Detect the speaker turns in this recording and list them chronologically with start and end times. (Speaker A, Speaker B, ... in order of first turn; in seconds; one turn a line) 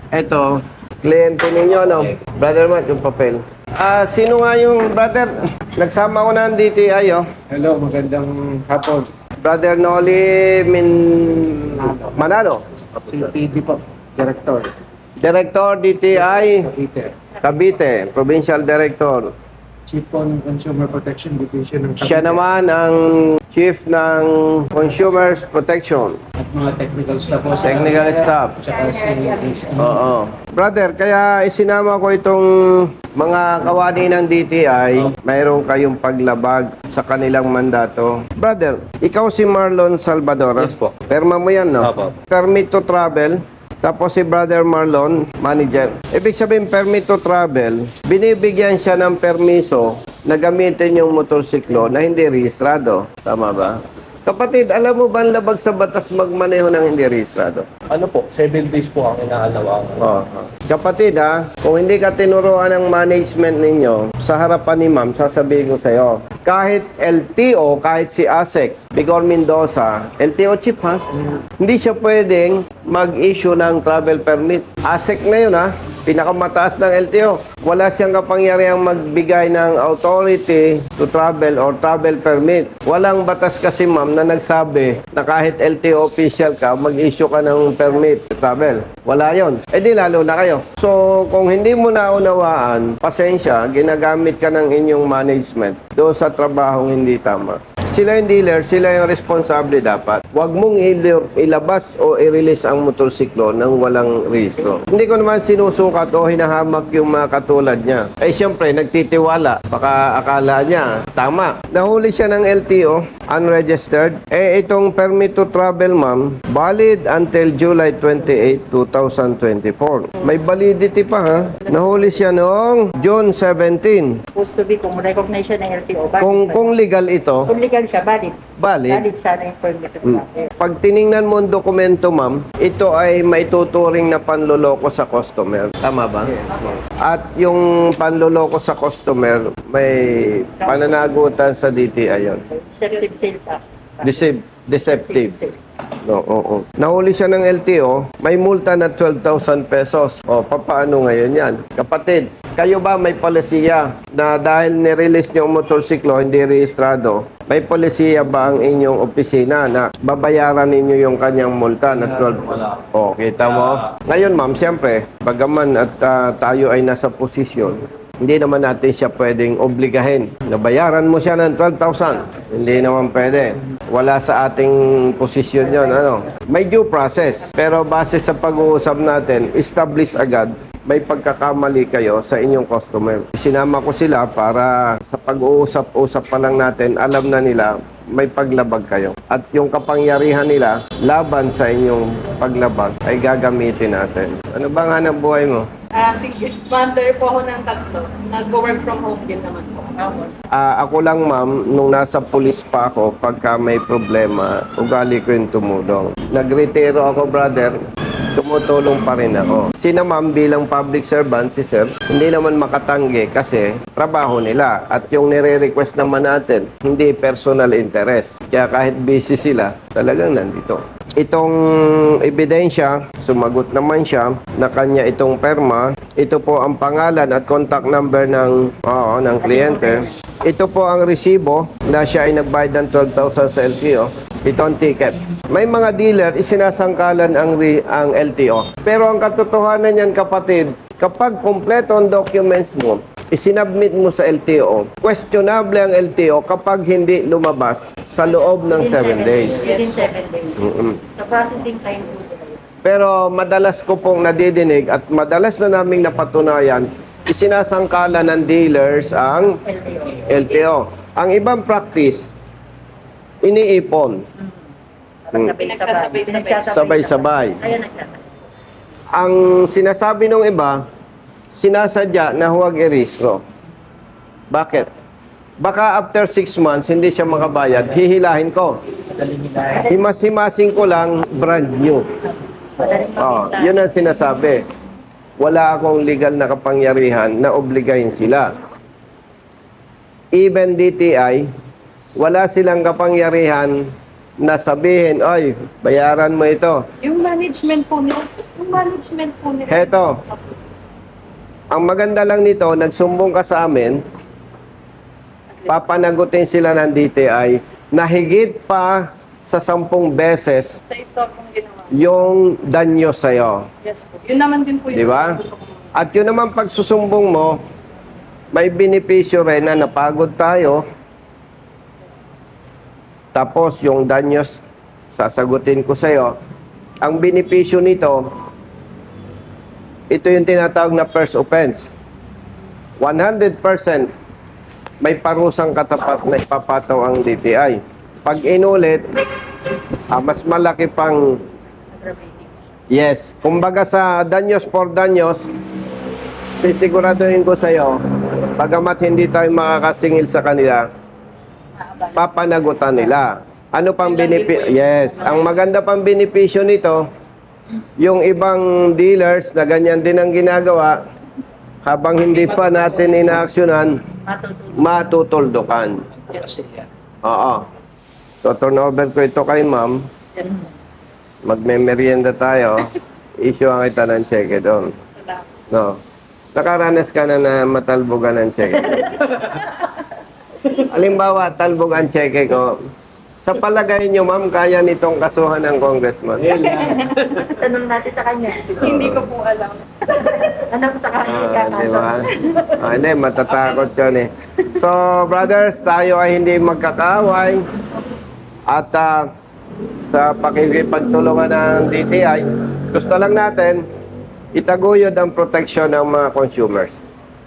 Speaker A: 0.1-7.2
Speaker B: 7.5-9.1
Speaker A: 9.4-12.6
Speaker B: 11.8-12.2
Speaker B: 13.0-14.7
Speaker A: 15.2-16.7
Speaker B: 16.2-17.1
Speaker A: 17.4-19.3
Speaker B: 19.9-22.4
Speaker A: 22.0-26.2
Speaker B: 26.4-30.0
Speaker C: 27.3-28.0
Speaker A: 27.6-28.6
Speaker A: 29.8-57.7
Speaker D: 40.6-40.9
Speaker D: 41.8-42.1
Speaker D: 57.9-60.1
Speaker A: 60.0-124.2
Speaker E: 121.7-122.2
Speaker E: 124.3-126.8
Speaker A: 126.2-127.5
Speaker E: 127.5-130.5
Speaker A: 128.6-129.1
Speaker A: 130.0-142.4
Speaker E: 140.6-141.1
Speaker E: 142.5-144.1
Speaker C: 142.9-143.3
Speaker A: 144.0-145.4
Speaker E: 144.9-145.6
Speaker A: 146.0-195.7
Speaker D: 162.0-162.8
Speaker D: 163.5-163.7
Speaker C: 195.9-200.3
Speaker A: 200.5-207.8
Speaker A: 208.4-249.8
Speaker E: 248.6-252.6
Speaker A: 250.6-251.0
Speaker A: 252.8-259.6
Speaker E: 259.6-260.6
Speaker A: 260.2-262.3
Speaker A: 263.4-264.2
Speaker E: 265.3-268.3
Speaker C: 265.6-266.7
Speaker A: 266.6-267.6
Speaker A: 269.1-270.8
Speaker A: 271.5-273.4
Speaker A: 274.5-274.9
Speaker A: 275.6-278.8
Speaker A: 279.6-282.1
Speaker E: 282.8-283.8
Speaker A: 283.0-284.6
Speaker A: 285.4-288.5
Speaker A: 290.3-291.5
Speaker A: 292.2-293.9
Speaker A: 294.4-296.8
Speaker C: 297.0-300.4
Speaker A: 299.7-300.2
Speaker A: 301.7-304.0
Speaker A: 305.7-310.8
Speaker C: 310.9-312.1
Speaker A: 311.9-313.7
Speaker C: 313.8-315.7
Speaker A: 314.9-315.4
Speaker A: 315.9-317.6
Speaker A: 318.5-320.8
Speaker A: 323.3-324.6
Speaker A: 325.1-326.4
Speaker A: 327.0-328.3
Speaker A: 330.1-331.9
Speaker A: 333.0-334.1
Speaker A: 335.0-339.1
Speaker A: 340.1-341.4
Speaker E: 342.0-342.6
Speaker A: 342.9-345.5
Speaker A: 346.6-348.0
Speaker A: 348.6-350.9
Speaker E: 351.8-352.4
Speaker A: 352.1-357.1
Speaker C: 354.0-355.5
Speaker A: 358.0-361.0
Speaker A: 361.8-364.0
Speaker C: 362.3-363.2
Speaker E: 364.2-364.9
Speaker A: 364.8-366.0
Speaker C: 366.3-366.6
Speaker A: 367.2-367.6
Speaker A: 368.4-370.1
Speaker A: 371.4-374.9
Speaker A: 375.7-376.0
Speaker A: 376.6-379.5
Speaker A: 380.7-382.8
Speaker A: 383.4-387.0
Speaker E: 386.5-388.8
Speaker C: 388.7-390.3
Speaker A: 388.8-389.3
Speaker E: 390.1-392.7
Speaker A: 391.2-397.6
Speaker C: 393.5-393.9
Speaker A: 398.7-399.3
Speaker A: 400.0-403.9
Speaker A: 404.6-407.0